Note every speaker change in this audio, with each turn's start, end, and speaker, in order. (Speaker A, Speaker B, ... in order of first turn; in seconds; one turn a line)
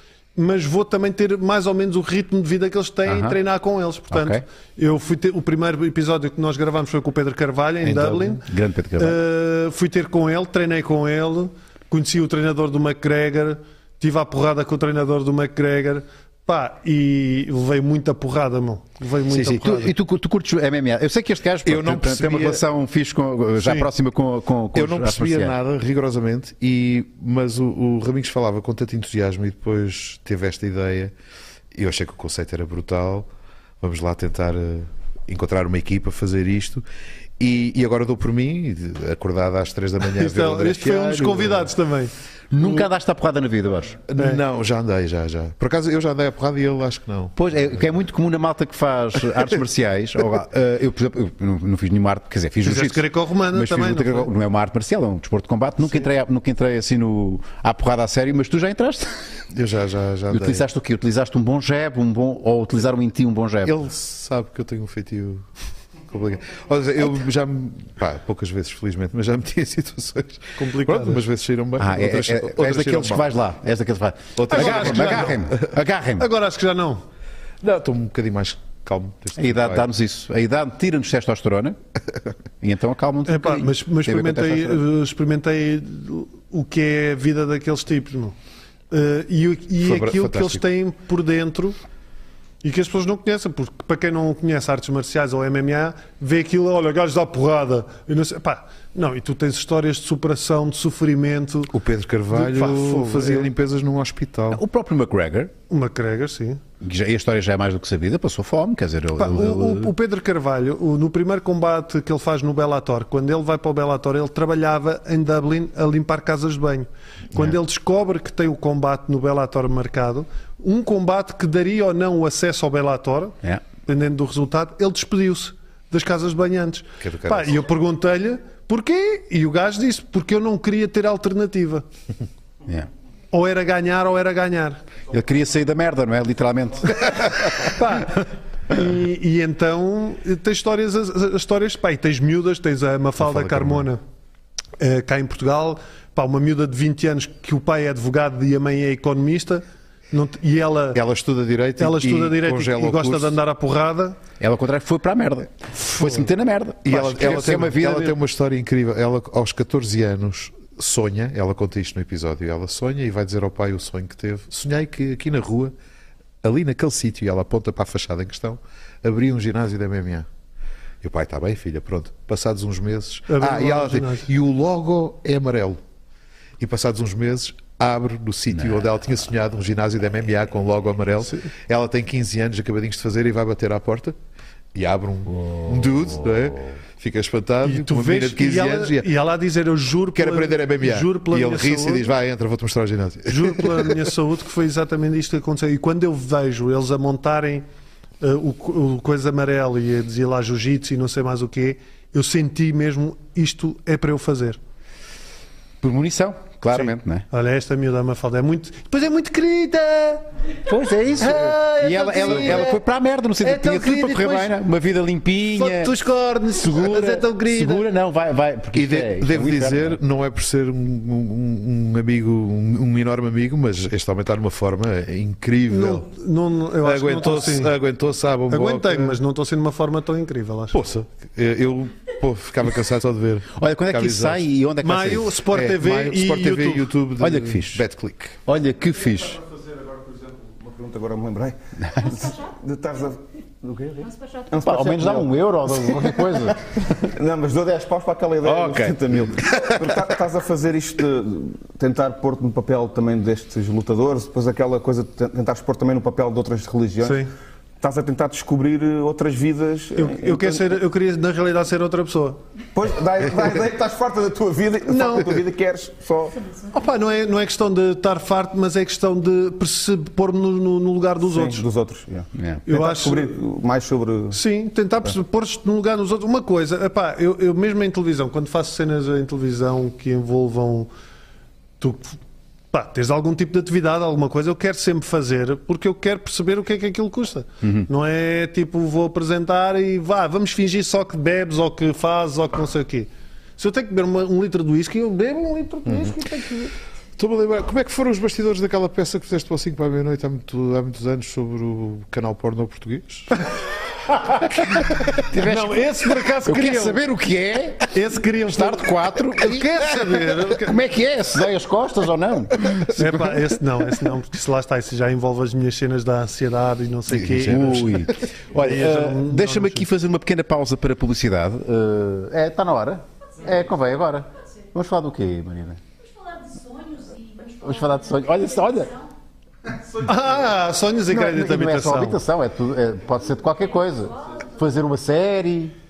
Speaker A: 0.3-8.5
Speaker B: 3.1-3.4
Speaker B: 4.1-4.4
Speaker B: 7.9-9.2
Speaker A: 9.0-19.9
Speaker B: 19.5-25.6
Speaker C: 21.6-22.6
Speaker A: 23.6-23.9
Speaker C: 24.7-31.1
Speaker C: 31.7-33.3
Speaker C: 33.8-36.9
Speaker C: 37.4-41.7
Speaker A: 40.1-42.9
Speaker B: 42.5-44.0
Speaker C: 44.1-47.4
Speaker A: 44.2-44.4
Speaker B: 47.4-59.2
Speaker A: 52.6-54.3
Speaker C: 59.5-60.6
Speaker B: 60.3-63.8
Speaker C: 63.6-65.5
Speaker C: 66.1-73.3
Speaker A: 70.6-71.2
Speaker B: 71.8-76.3
Speaker C: 74.4-75.5
Speaker A: 74.5-75.4
Speaker A: 76.2-77.0
Speaker C: 77.6-79.9
Speaker B: 79.4-81.8
Speaker B: 82.6-84.8
Speaker A: 83.3-88.4
Speaker A: 88.9-91.8
Speaker C: 89.8-90.6
Speaker A: 92.6-101.7
Speaker C: 101.7-104.6
Speaker A: 102.4-103.5
Speaker B: 104.5-105.5
Speaker A: 105.7-106.6
Speaker B: 106.8-109.9
Speaker A: 109.2-131.8
Speaker C: 127.0-127.6
Speaker A: 133.3-134.8
Speaker B: 135.1-137.7
Speaker A: 137.7-144.0
Speaker C: 143.2-143.8
Speaker A: 144.8-151.0
Speaker C: 150.9-153.4
Speaker A: 151.8-154.2
Speaker B: 154.4-158.2
Speaker C: 156.8-165.7
Speaker C: 166.4-170.3
Speaker C: 171.0-175.8
Speaker A: 173.3-174.3
Speaker C: 176.6-184.2
Speaker C: 184.8-189.1
Speaker B: 185.4-186.1
Speaker A: 187.6-192.1
Speaker C: 190.1-193.9
Speaker A: 193.3-197.7
Speaker A: 198.2-204.6
Speaker B: 205.8-207.2
Speaker A: 206.7-210.3
Speaker B: 210.7-215.9
Speaker A: 211.2-212.8
Speaker A: 213.4-214.5
Speaker A: 215.6-217.9
Speaker B: 216.6-220.0
Speaker C: 218.7-226.1
Speaker A: 225.7-227.8
Speaker C: 226.8-229.2
Speaker A: 228.5-230.8
Speaker C: 230.7-234.5
Speaker B: 233.6-235.4
Speaker A: 234.8-236.9
Speaker C: 235.5-238.4
Speaker B: 237.2-237.8
Speaker B: 238.5-239.4
Speaker D: 239.4-257.3
Speaker E: 242.0-242.5
Speaker E: 244.0-244.5
Speaker B: 244.6-246.6
Speaker B: 248.4-249.0
Speaker A: 257.0-257.3
Speaker D: 257.8-260.6
Speaker A: 260.0-262.4
Speaker D: 262.7-266.4
Speaker A: 264.9-265.4
Speaker A: 266.7-271.6
Speaker D: 271.2-274.4
Speaker B: 272.4-272.6
Speaker A: 272.7-273.4
Speaker A: 274.3-280.9
Speaker A: 281.8-282.2
Speaker A: 282.7-296.7
Speaker C: 297.2-303.4
Speaker B: 304.9-307.9
Speaker A: 305.4-307.0
Speaker A: 307.9-310.8
Speaker B: 308.5-313.2
Speaker A: 312.9-318.0
Speaker C: 317.1-318.1
Speaker B: 317.3-325.8
Speaker A: 318.5-319.9
Speaker E: 326.0-329.1
Speaker B: 327.6-328.9
Speaker A: 330.0-332.2
Speaker B: 331.1-335.8
Speaker E: 334.1-334.5